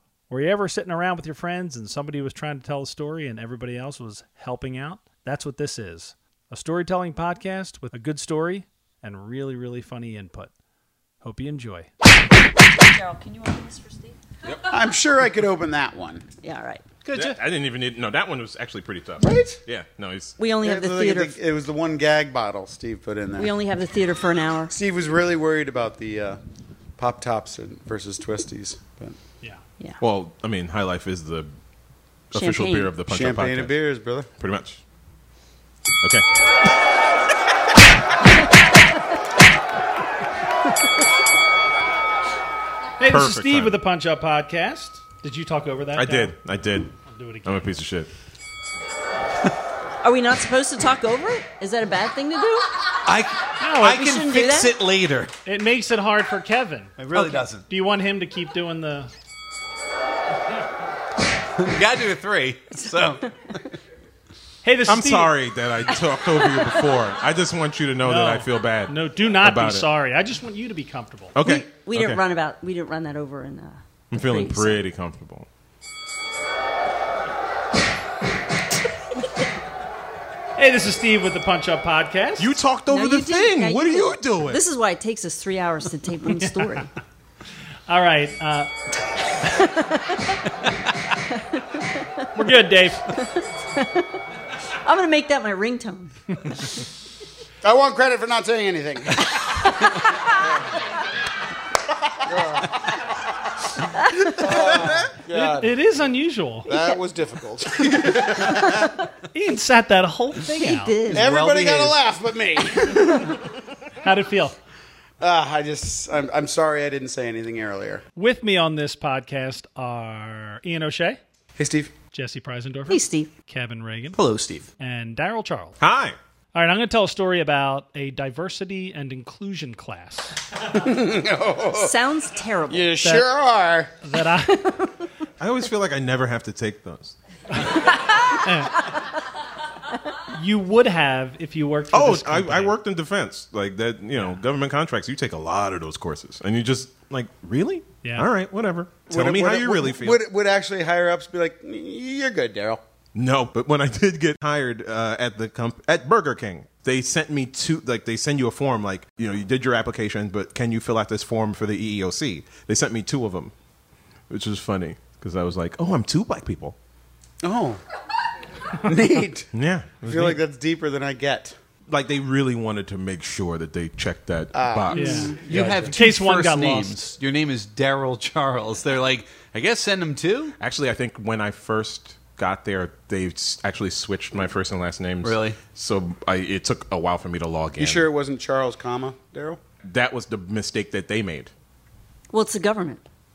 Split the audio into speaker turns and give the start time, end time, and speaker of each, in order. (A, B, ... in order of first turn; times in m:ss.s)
0:00.3-0:10.5 A
0:11.2-0:11.9 A
0:12.6-0:14.2 B
0:14.6-0:16.2 C
0:16.4-0:16.8 B
0:17.0-0:17.4 D
0:17.1-0:20.3 E
0:19.2-0:19.6 C
0:20.4-0:21.4 B
0:20.6-0:23.5 C
0:23.4-0:24.7 B
0:24.7-0:26.4 C
0:27.0-0:29.2 C
0:30.0-0:31.5 E
0:32.3-0:33.8 E
0:32.3-0:32.9 B
0:33.1-0:34.3 C
0:34.4-0:34.8 E
0:36.0-0:36.2 E
0:43.0-0:46.4 A
0:43.0-0:43.8 E
0:45.9-0:48.1 E
0:47.0-0:47.7 A
0:50.0-0:52.7 B
0:53.0-0:55.3 D
0:53.6-0:54.2 A
0:53.8-0:54.8 B
0:55.4-0:59.1 A
0:57.0-0:57.6 D
1:01.6-1:03.7 D
1:04.6-1:05.3 A
1:04.9-1:09.9 E
1:06.3-1:06.9 B
1:08.0-1:11.4 A
1:11.3-1:12.2 E
1:11.4-1:14.8 B
1:14.1-1:15.5 E
1:20.6-1:22.6 A
1:22.4-1:24.6 E
1:22.9-1:26.9 B
1:26.3-1:26.8 A
1:27.9-1:28.7 A
1:29.5-1:30.2 B
1:31.3-1:32.0 B
1:32.3-1:33.2 A
1:33.2-1:34.1 B
1:34.8-1:36.1 B
1:37.6-1:39.4 C
1:39.6-1:40.4 B
1:42.2-1:42.9 C
1:44.0-1:44.4 B
1:44.2-1:45.7 C
1:45.3-1:46.7 A
1:46.6-1:48.7 C
1:49.3-1:51.0 A
1:50.6-1:51.3 B
1:51.1-1:51.9 D
1:51.1-1:53.4 C
1:54.0-1:54.6 A
1:55.2-1:58.0 C
1:58.2-2:01.2 A
2:01.6-2:01.9 C
2:02.1-2:04.2 A
2:02.9-2:03.3 B
2:04.1-2:04.7 D
2:04.8-2:05.8 A
2:05.8-2:06.2 E
2:06.5-2:10.4 A
2:10.7-2:11.9 C
2:11.7-2:12.9 B
2:12.7-2:13.9 C
2:13.0-2:13.3 A
2:14.0-2:14.8 A
2:15.4-2:17.1 E
2:17.5-2:18.8 A
2:20.3-2:22.7 A
2:21.9-2:30.2 E
2:28.0-2:28.3 A
2:29.1-2:32.8 C
2:33.1-2:43.5 E
2:44.3-2:46.7 E
2:47.4-2:47.8 C
2:48.8-2:49.5 C
2:49.5-2:50.4 E
2:50.0-2:51.6 C
2:51.9-2:55.3 E
2:54.5-2:55.9 C
2:54.9-2:57.0 A
2:55.4-3:00.6 D
3:00.6-3:08.1 E
3:05.2-3:05.6 D
3:07.8-3:09.6 C
3:09.8-3:11.5 E
3:12.3-3:13.0 B